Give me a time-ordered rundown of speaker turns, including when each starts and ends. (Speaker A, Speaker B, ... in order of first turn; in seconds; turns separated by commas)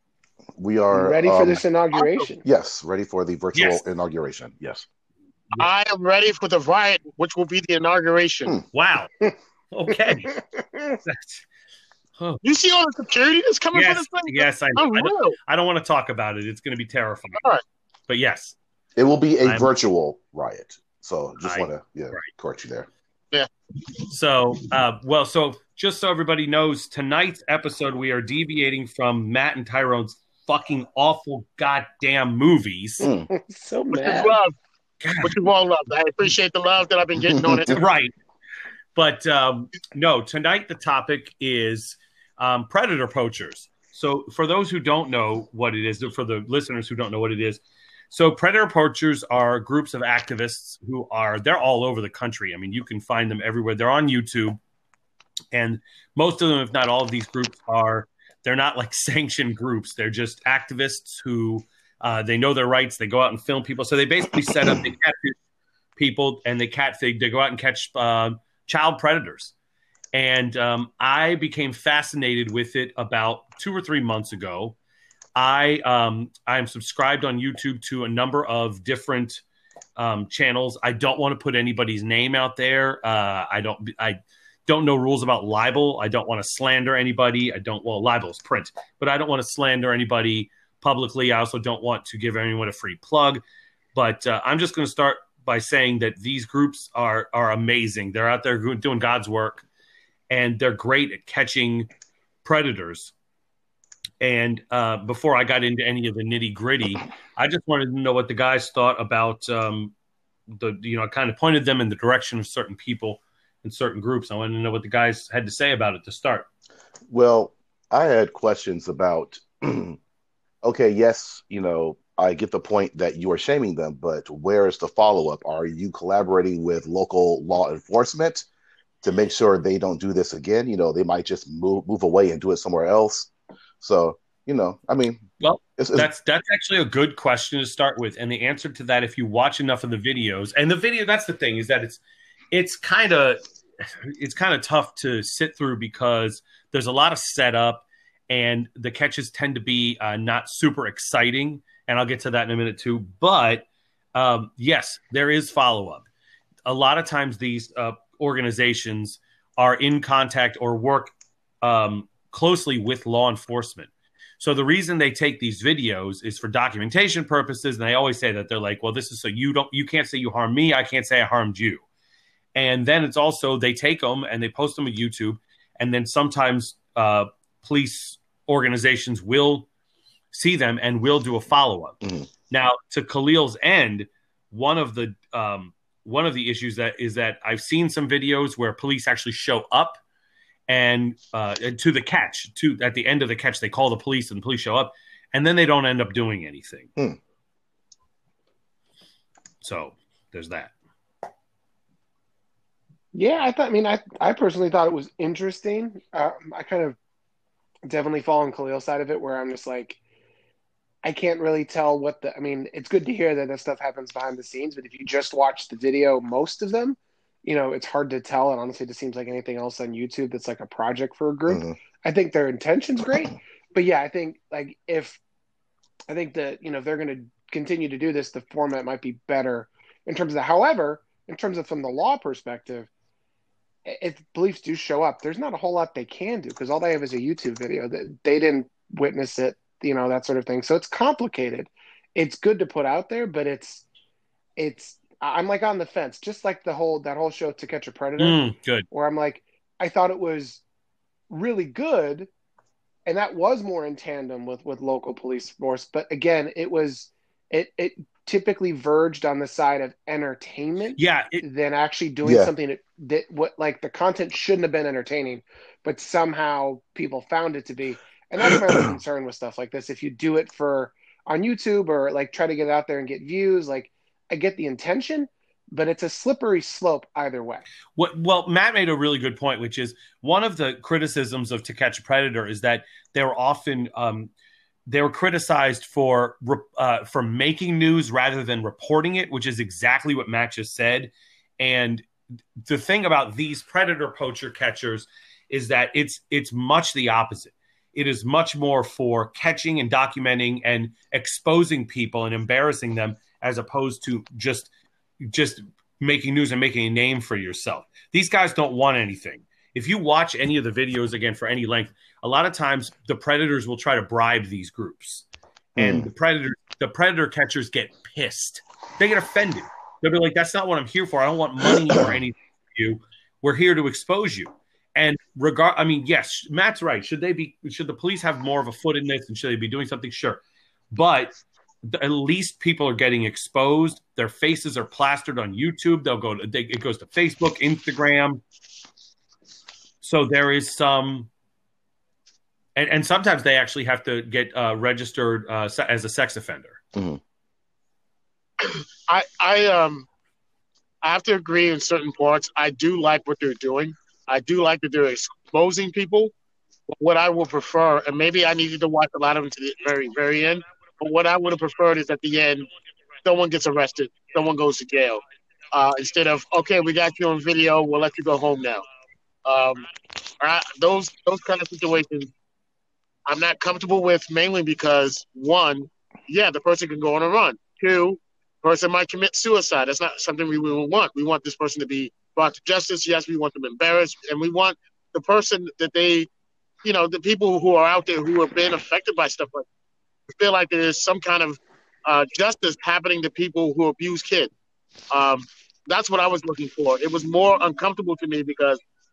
Speaker A: 0.6-1.6, Speaker B: 0.9-2.4, Speaker A: 2.4-4.8, Speaker C: 3.5-3.8, Speaker D: 5.6-8.6, Speaker C: 8.7-9.1, Speaker C: 9.7-10.3, Speaker B: 10.3-11.0, Speaker C: 11.1-11.4, Speaker D: 12.4-15.3, Speaker C: 13.7-17.5, Speaker D: 17.4-17.6, Speaker C: 18.1-18.6, Speaker A: 19.0-22.9, Speaker C: 19.4-19.7, Speaker C: 21.4-22.3, Speaker C: 24.1-33.1, Speaker A: 33.0-33.3, Speaker B: 33.3-34.4, Speaker D: 33.9-34.5, Speaker C: 35.0-35.3, Speaker D: 35.2-37.8, Speaker A: 37.2-37.7, Speaker C: 37.7-38.1, Speaker C: 39.0-54.6, Speaker C: 55.5-65.3, Speaker A: 64.4-64.8, Speaker C: 66.0-69.5, Speaker C: 70.1-74.8, Speaker C: 75.3-79.4, Speaker C: 80.0-93.4, Speaker C: 93.9-99.7, Speaker C: 100.3-101.9, Speaker C: 102.4-103.1, Speaker C: 104.2-109.9, Speaker C: 110.5-116.5, Speaker A: 117.1-120.0, Speaker A: 120.6-128.5, Speaker A: 129.0-133.3, Speaker A: 133.8-135.2, Speaker C: 135.4-142.0, Speaker A: 135.8-136.1, Speaker C: 142.5-143.4, Speaker C: 144.0-156.1, Speaker C: 156.6-163.9, Speaker C: 164.4-171.8, Speaker C: 172.5-179.7, Speaker C: 180.3-182.0, Speaker C: 182.5-190.0, Speaker C: 190.7-196.9, Speaker C: 199.6-200.7, Speaker B: 203.1-207.0, Speaker B: 207.9-210.0, Speaker B: 211.0-225.2, Speaker A: 221.5-221.8, Speaker B: 226.1-232.9, Speaker B: 233.9-243.8, Speaker B: 244.6-248.4, Speaker C: 248.2-248.9, Speaker B: 248.9-250.6, Speaker B: 251.3-252.3, Speaker B: 253.1-277.6, Speaker C: 261.0-261.4, Speaker A: 262.2-262.5, Speaker C: 277.9-284.3, Speaker C: 284.9-292.1, Speaker C: 292.6-331.3, Speaker A: 315.8-316.1, Speaker C: 331.9-338.4, Speaker C: 340.0-341.3, Speaker C: 342.8-346.8, Speaker D: 348.6-350.1, Speaker D: 351.0-356.3, Speaker D: 356.9-362.7, Speaker D: 363.2-368.9, Speaker D: 369.4-369.9, Speaker D: 370.4-372.3, Speaker D: 373.2-386.3, Speaker D: 386.8-389.6, Speaker D: 390.3-394.5, Speaker D: 395.1-398.8